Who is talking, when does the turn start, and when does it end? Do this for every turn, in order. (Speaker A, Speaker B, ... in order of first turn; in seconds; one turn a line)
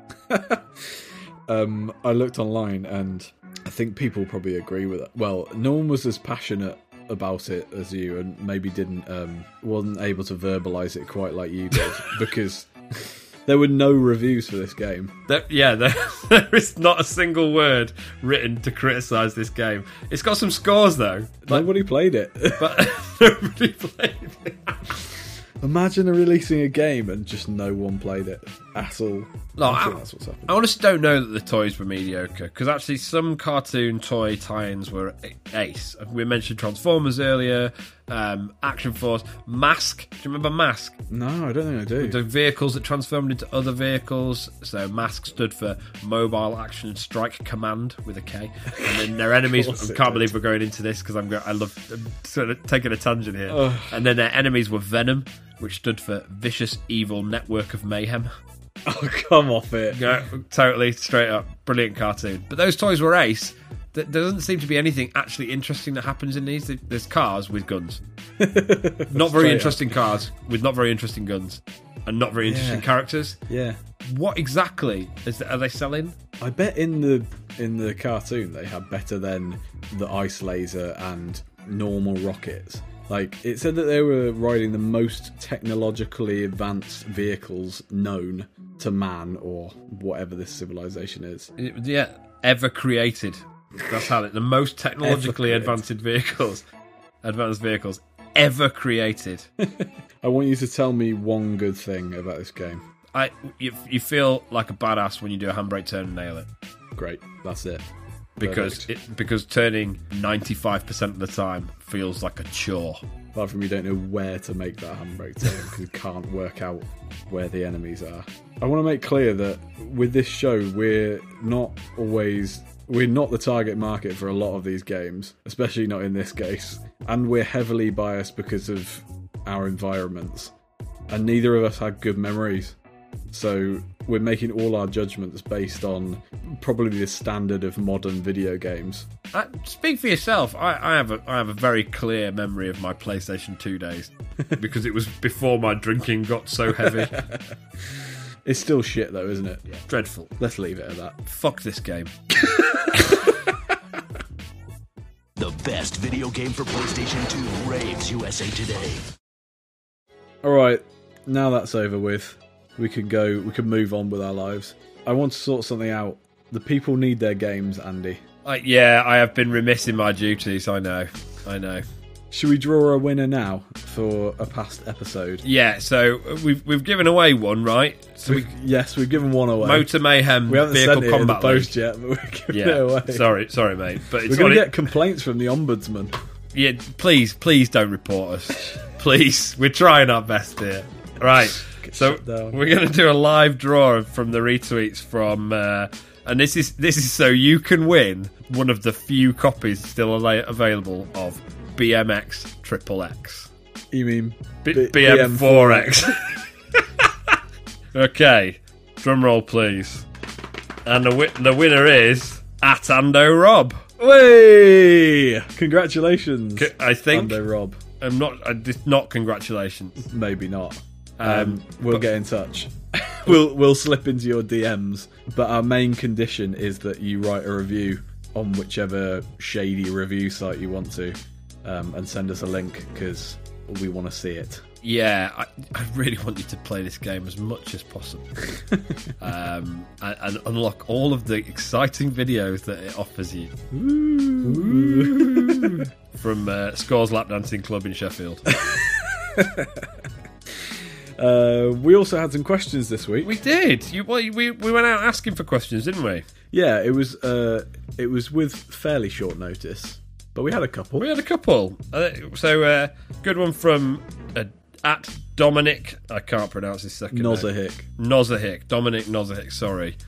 Speaker A: 0.3-15.2
Speaker B: 15.3-21.7
Speaker A: 21.5-22.8
Speaker B: 22.6-25.0
Speaker A: 25.6-30.6
Speaker B: 29.6-41.0
Speaker A: 41.1-42.2
Speaker B: 42.0-58.3
Speaker A: 48.8-50.3
Speaker A: 53.5-53.9
Speaker A: 58.9-60.1
Speaker B: 59.9-68.0
Speaker A: 68.4-70.0
Speaker B: 69.1-73.4
Speaker A: 72.4-72.9
Speaker A: 73.5-73.8
Speaker B: 74.0-76.2
Speaker A: 76.4-91.5
Speaker B: 91.6-96.6
Speaker A: 95.0-95.8
Speaker B: 97.2-99.5
Speaker A: 99.6-102.8
Speaker B: 103.1-106.5
Speaker A: 107.0-107.8
Speaker A: 108.4-108.9
Speaker B: 108.4-113.0
Speaker A: 113.3-130.5
Speaker A: 131.1-132.8
Speaker A: 133.3-139.1
Speaker B: 139.3-147.3
Speaker A: 146.8-149.7
Speaker B: 149.7-150.3
Speaker A: 150.4-151.2
Speaker B: 151.3-152.1
Speaker A: 152.5-153.6
Speaker C: 155.4-159.1
Speaker A: 160.4-168.2
Speaker B: 168.4-171.8
Speaker A: 172.3-175.4
Speaker B: 175.4-178.5
Speaker A: 178.3-179.9
Speaker B: 179.6-181.7
Speaker A: 180.5-183.3
Speaker B: 182.5-184.8
Speaker A: 184.3-186.2
Speaker B: 186.5-203.5
Speaker A: 191.7-192.6
Speaker A: 203.9-206.1
Speaker B: 204.6-206.4
Speaker B: 207.9-210.1
Speaker B: 210.8-213.9
Speaker A: 214.0-217.8
Speaker B: 216.6-217.4
Speaker B: 218.0-220.0
Speaker A: 220.0-234.7
Speaker B: 221.2-222.0
Speaker B: 234.8-238.3
Speaker B: 239.2-243.5
Speaker A: 243.7-245.9
Speaker B: 244.4-248.6
Speaker A: 248.5-253.3
Speaker B: 253.2-256.2
Speaker A: 256.5-261.1
Speaker B: 261.0-270.0
Speaker A: 267.1-267.9